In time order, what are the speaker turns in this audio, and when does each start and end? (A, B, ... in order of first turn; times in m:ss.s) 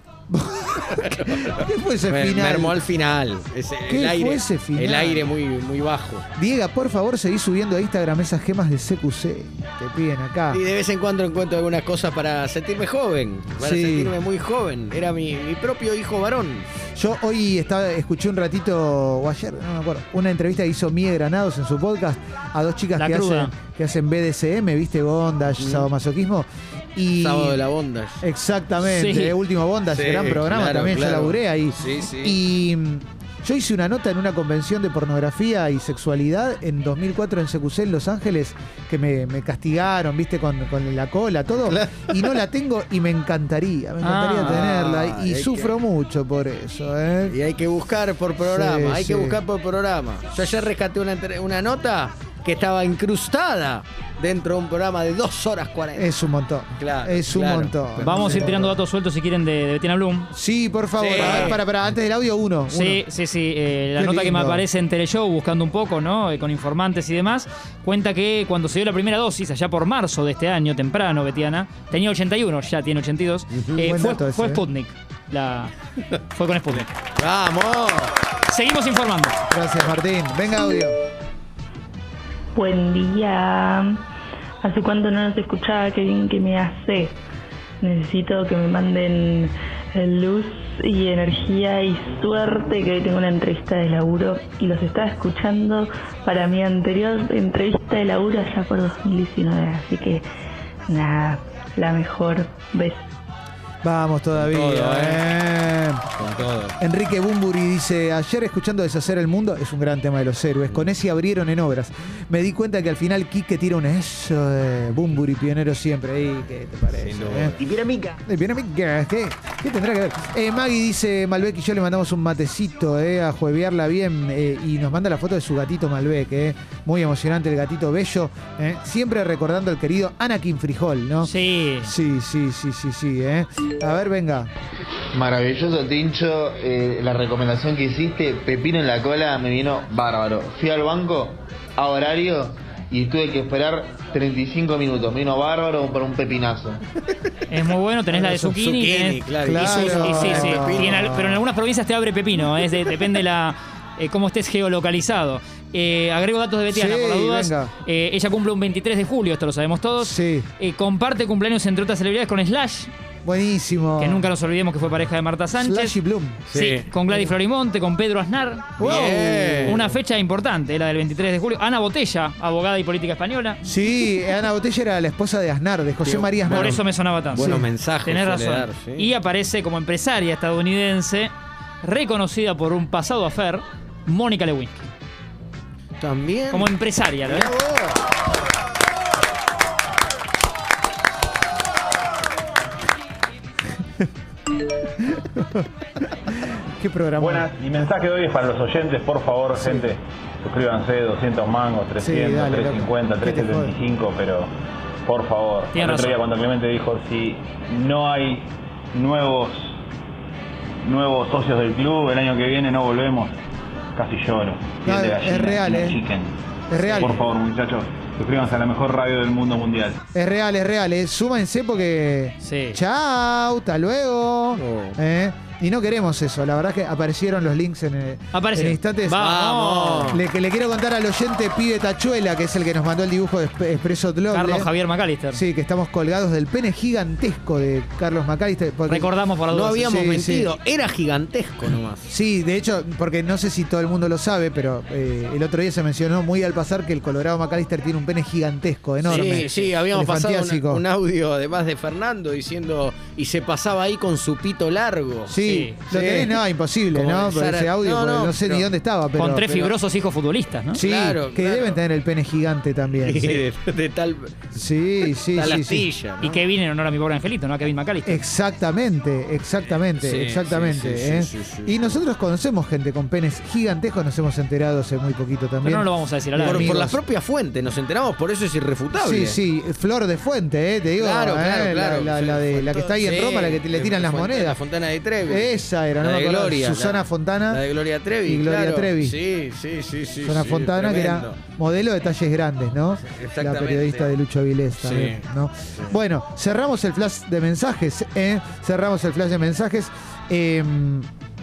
0:00.3-0:02.8 A
0:02.1-0:06.2 B
0:03.9-0:05.3 A
0:06.4-0:10.6 A
0:10.5-0:16.7 B
0:13.6-0:14.2 A
0:16.9-0:27.6 A
0:23.0-0:23.5 C
0:25.6-0:25.9 B
0:27.2-0:28.2 B
0:28.2-0:47.4 A
0:28.8-0:29.4 C
0:29.9-0:32.4 B
0:41.7-0:42.2 B
0:44.0-0:44.6 C
0:44.4-0:45.7 B
0:47.3-0:56.1 B
0:48.4-0:49.4 A
0:55.9-0:58.7 A
0:56.8-0:58.7 B
0:58.0-1:00.3 C
1:00.3-1:03.0 A
1:01.0-1:01.6 B
1:01.1-1:01.6 C
1:02.7-1:15.7 C
1:04.0-1:04.6 A
1:13.5-1:13.9 B
1:13.8-1:14.6 A
1:16.3-1:16.9 C
1:17.2-1:18.1 B
1:18.5-1:19.4 C
1:19.5-1:20.9 A
1:22.5-1:24.0 D
1:24.6-1:27.2 D
1:27.8-1:40.2 D
1:40.9-1:43.0 D
1:43.8-1:46.0 A
1:44.3-1:45.2 B
1:46.1-1:46.8 B
1:46.8-1:57.6 A
1:50.7-1:50.9 B
1:56.9-1:57.7 B
1:58.2-2:14.5 A
2:11.2-2:11.9 C
2:15.1-2:26.8 E
2:27.5-2:42.9 C
2:28.2-2:28.5 A
2:28.3-2:31.2 B
2:29.4-2:31.4 A
2:36.7-2:37.7 A
2:40.0-2:40.5 A
2:43.2-2:44.3 A
2:44.0-2:46.0 C
2:45.5-2:46.4 A
2:46.5-2:46.8 B
2:46.5-2:53.6 C
2:47.1-2:47.3 A
2:48.8-2:49.9 A
2:48.8-2:49.9 B
2:53.6-2:57.7 A
2:56.0-2:59.1 B
2:56.5-3:04.8 C
3:06.0-3:06.7 B
3:06.5-3:07.5 C
3:07.2-3:07.9 B
3:15.0-3:15.6 A
3:16.3-3:17.5 A
3:17.2-3:24.5 F
3:19.6-3:19.9 A
3:22.0-3:23.7 A
3:25.0-3:29.6 F
3:25.7-3:26.2 C
3:30.8-3:33.3 F
3:33.9-3:36.3 F
3:34.8-3:36.0 A
3:36.7-3:37.2 A
3:36.8-3:37.1 C
3:37.0-3:40.0 F
3:40.1-3:49.3 A
3:42.4-3:42.8 C
3:44.5-3:45.0 B
3:48.3-3:50.2 C
3:49.2-3:50.2 B
3:50.1-3:54.7 A
3:54.3-3:55.4 C
3:55.3-3:59.1 A
3:58.9-4:00.0 C
3:59.5-4:02.1 B
3:59.8-4:00.5 A
4:02.1-4:10.8 A
4:09.0-4:18.7 B
4:09.1-4:09.6 C
4:15.2-4:19.5 A
4:15.4-4:15.8 C
4:19.1-4:20.8 C
4:19.4-4:19.7 B
4:20.7-4:23.4 A
4:20.8-4:21.8 B
4:23.0-4:24.4 B
4:24.5-4:25.9 A
4:25.3-4:26.4 B
4:26.2-4:28.2 C
4:28.0-4:37.0 A
4:29.7-4:32.0 B
4:35.6-4:36.8 C
4:36.4-4:39.4 B
4:39.0-4:44.6 A
4:41.0-4:51.4 B
4:45.2-4:47.6 A
4:48.2-4:49.2 A
4:50.2-5:01.1 A
4:53.0-4:54.2 B
4:54.8-4:55.2 B